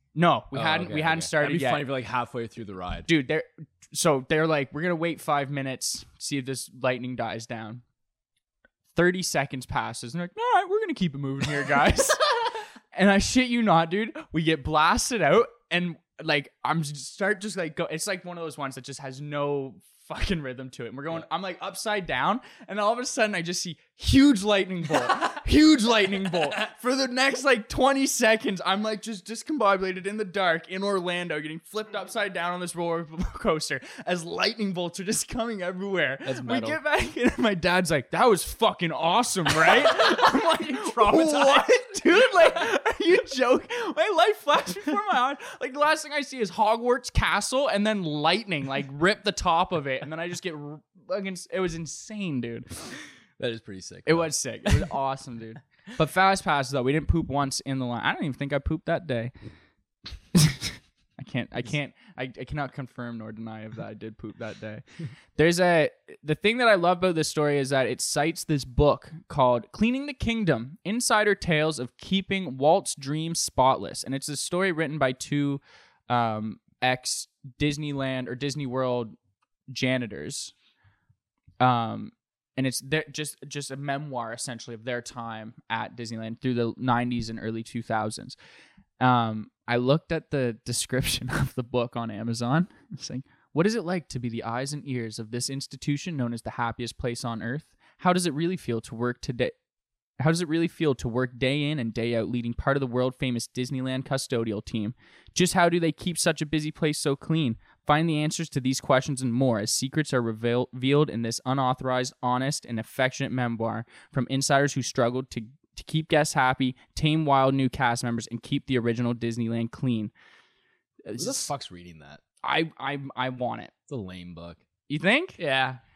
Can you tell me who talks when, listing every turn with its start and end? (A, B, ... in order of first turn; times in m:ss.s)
0:00.1-0:01.9 A
0:00.5-0:03.1 B
0:03.1-0:07.8 A
0:08.9-0:52.9 A
0:36.2-0:36.8 B
0:39.7-0:41.7 B
0:53.4-0:54.9 B
0:54.0-0:59.3 A
1:00.3-1:04.8 A
1:05.4-1:19.2 A
1:19.7-1:20.5 A
1:21.6-1:28.4 A
1:29.0-1:39.5 A
1:40.2-2:00.1 A
2:01.0-2:01.5 A
2:01.2-2:02.2 B
2:02.4-2:03.7 A
2:03.9-2:04.6 B
2:04.9-2:05.7 A